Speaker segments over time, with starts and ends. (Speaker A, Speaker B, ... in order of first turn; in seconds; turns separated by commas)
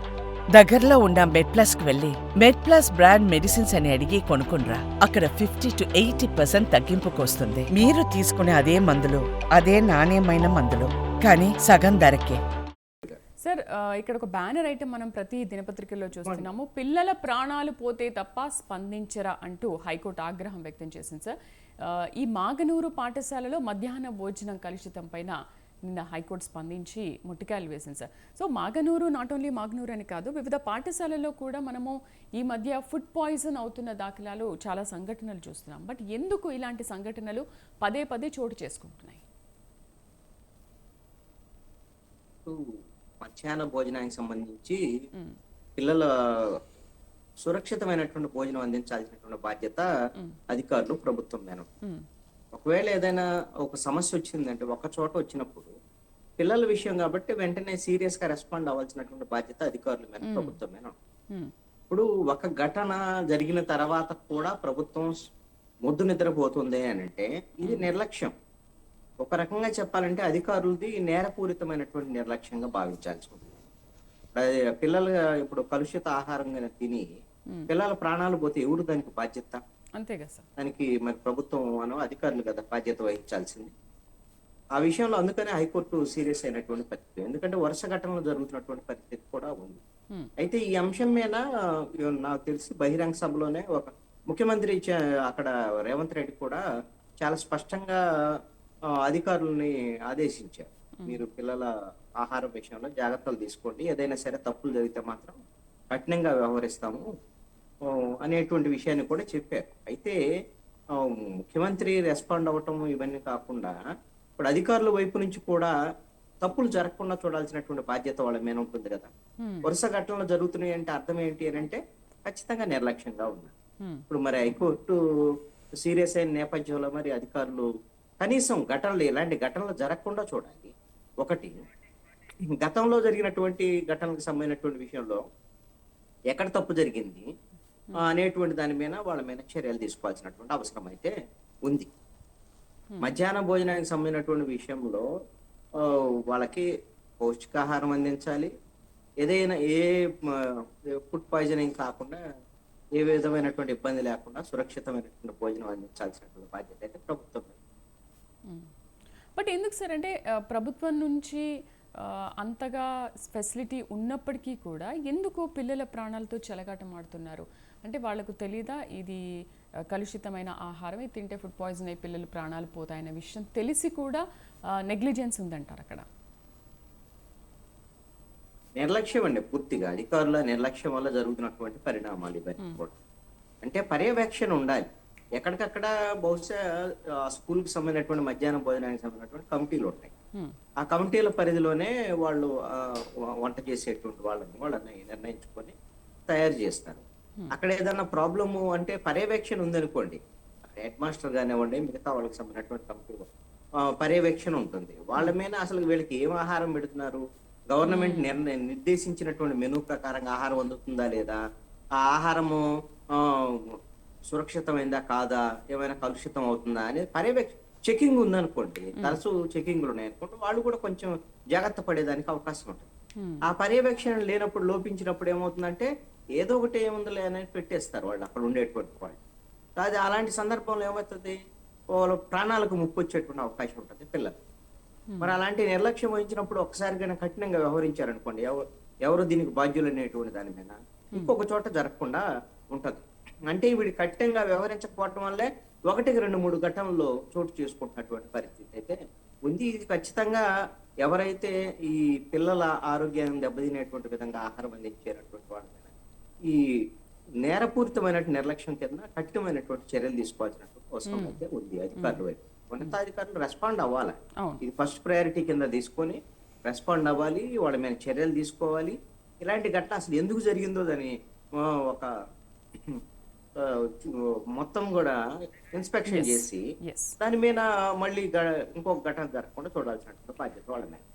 Speaker A: 0.5-12.4, Speaker B: 13.4-39.2, Speaker C: 16.1-16.5, Speaker C: 43.2-44.8, Speaker C: 45.8-46.6, Speaker C: 47.4-49.9, Speaker C: 50.5-51.7, Speaker C: 52.5-55.7, Speaker C: 56.4-60.9, Speaker B: 60.2-60.6, Speaker C: 61.9-65.2, Speaker C: 65.8-68.3, Speaker B: 67.6-67.9, Speaker C: 69.2-73.5, Speaker C: 74.3-77.1, Speaker C: 77.7-79.6, Speaker B: 80.0-80.5, Speaker C: 80.6-83.7, Speaker C: 84.8-89.8, Speaker C: 90.4-91.4, Speaker C: 92.0-96.6, Speaker C: 97.2-98.0, Speaker C: 99.0-105.4, Speaker C: 105.9-107.0, Speaker C: 107.9-110.2, Speaker C: 111.0-113.8, Speaker C: 114.4-115.7, Speaker C: 116.4-119.1, Speaker B: 119.4-119.7, Speaker C: 119.6-123.5, Speaker C: 124.1-125.0, Speaker C: 125.8-127.7, Speaker C: 128.2-131.6, Speaker C: 132.6-135.2, Speaker C: 136.3-137.3, Speaker C: 138.0-141.1, Speaker C: 141.7-141.9, Speaker B: 142.9-143.2, Speaker C: 143.0-145.1, Speaker C: 145.8-146.7, Speaker C: 147.2-148.5, Speaker C: 149.2-152.2, Speaker C: 153.0-157.6, Speaker B: 159.3-161.4, Speaker B: 162.0-169.2, Speaker B: 169.9-174.2, Speaker B: 174.9-176.1, Speaker C: 178.8-182.9, Speaker C: 183.6-190.1, Speaker C: 190.8-195.7, Speaker C: 196.3-203.3, Speaker C: 204.0-211.4, Speaker B: 207.8-208.4, Speaker C: 212.0-212.6, Speaker C: 213.1-213.7, Speaker C: 214.3-222.9, Speaker B: 223.2-223.4, Speaker C: 223.5-229.2, Speaker C: 229.8-231.4, Speaker C: 231.9-234.4, Speaker B: 235.1-235.4, Speaker C: 235.2-250.4, Speaker C: 251.0-255.9, Speaker C: 256.5-256.9, Speaker C: 257.4-272.1, Speaker B: 261.1-261.4, Speaker B: 262.0-262.2, Speaker C: 273.6-275.2, Speaker C: 275.7-276.6, Speaker B: 276.1-277.2, Speaker C: 277.2-281.0